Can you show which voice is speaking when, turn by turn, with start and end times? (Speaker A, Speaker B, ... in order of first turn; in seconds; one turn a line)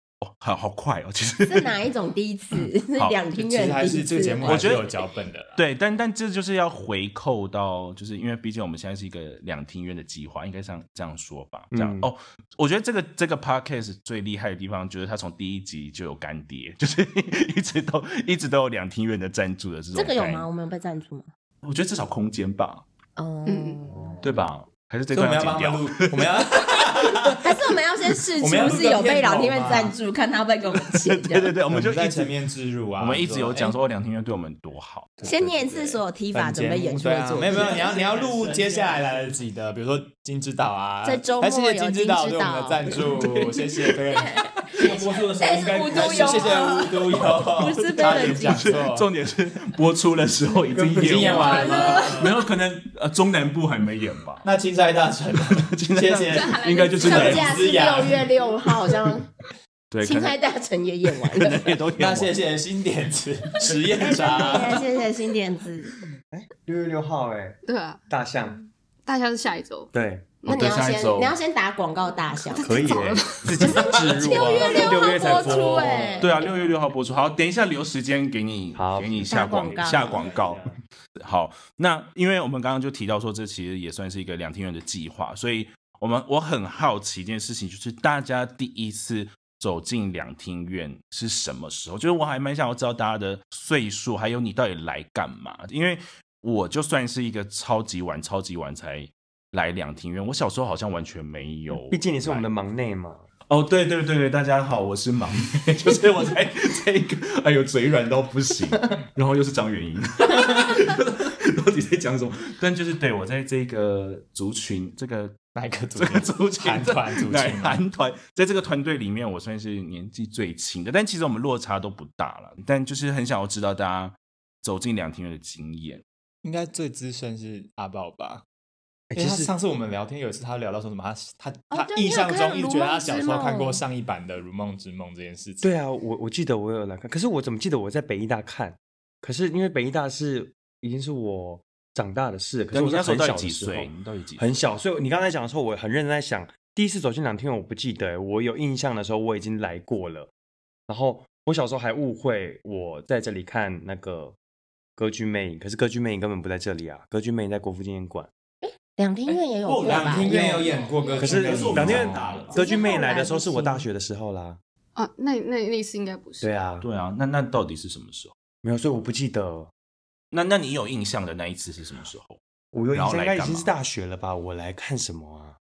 Speaker A: 0.2-1.8
Speaker B: 1.5-4.8
Speaker A: 2.5-3.2
Speaker C: 3.3-5.6
Speaker A: 4.4-4.9
Speaker A: 5.5-20.5
Speaker D: 11.7-12.1
Speaker B: 19.9-21.3
Speaker A: 21.6-22.8
Speaker B: 23.2-24.2
Speaker E: 23.4-23.8
Speaker A: 24.2-27.3
Speaker C: 25.1-27.4
Speaker B: 27.4-31.5
Speaker C: 28.4-29.9
Speaker A: 30.7-32.3
Speaker C: 31.7-33.7
Speaker A: 33.0-35.2
Speaker C: 35.2-49.1
Speaker B: 35.2-39.0
Speaker B: 41.0-43.5
Speaker B: 44.1-48.8
Speaker A: 48.0-54.5
Speaker C: 50.7-52.3
Speaker B: 51.0-52.2
Speaker C: 54.4-58.2
Speaker A: 55.5-58.1
Speaker E: 56.4-57.3
Speaker B: 57.0-59.3
Speaker A: 59.9-60.4
Speaker B: 60.0-61.7
Speaker A: 61.2-62.3
Speaker C: 62.0-64.8
Speaker B: 64.0-65.9
Speaker D: 66.3-67.5
Speaker E: 67.7-68.0
Speaker D: 68.1-68.5
Speaker E: 69.0-69.9
Speaker D: 69.9-70.3
Speaker E: 70.4-70.8
Speaker A: 70.5-71.3
Speaker B: 70.5-76.5
Speaker E: 72.6-73.5
Speaker D: 72.6-76.2
Speaker A: 73.4-102.5
Speaker C: 75.8-76.1
Speaker D: 78.7-79.3
Speaker B: 79.3-80.3
Speaker C: 79.5-80.8
Speaker D: 101.7-103.2
Speaker A: 103.5-115.4
Speaker C: 115.5-117.8
Speaker A: 115.9-126.0
Speaker C: 126.4-128.4
Speaker D: 129.1-129.5
Speaker C: 129.1-135.7
Speaker B: 131.7-133.8
Speaker D: 135.6-150.3
Speaker A: 142.7-144.6
Speaker D: 150.9-154.3
Speaker D: 155.0-158.3
Speaker B: 158.6-160.7
Speaker A: 159.6-162.6
Speaker C: 159.8-162.6
Speaker D: 160.3-160.7
Speaker D: 161.2-164.6
Speaker B: 162.5-163.8
Speaker E: 164.9-166.5
Speaker D: 166.4-166.8
Speaker A: 166.8-168.3
Speaker D: 168.6-169.7
Speaker A: 170.3-172.4
Speaker D: 172.7-175.6
Speaker A: 172.9-173.7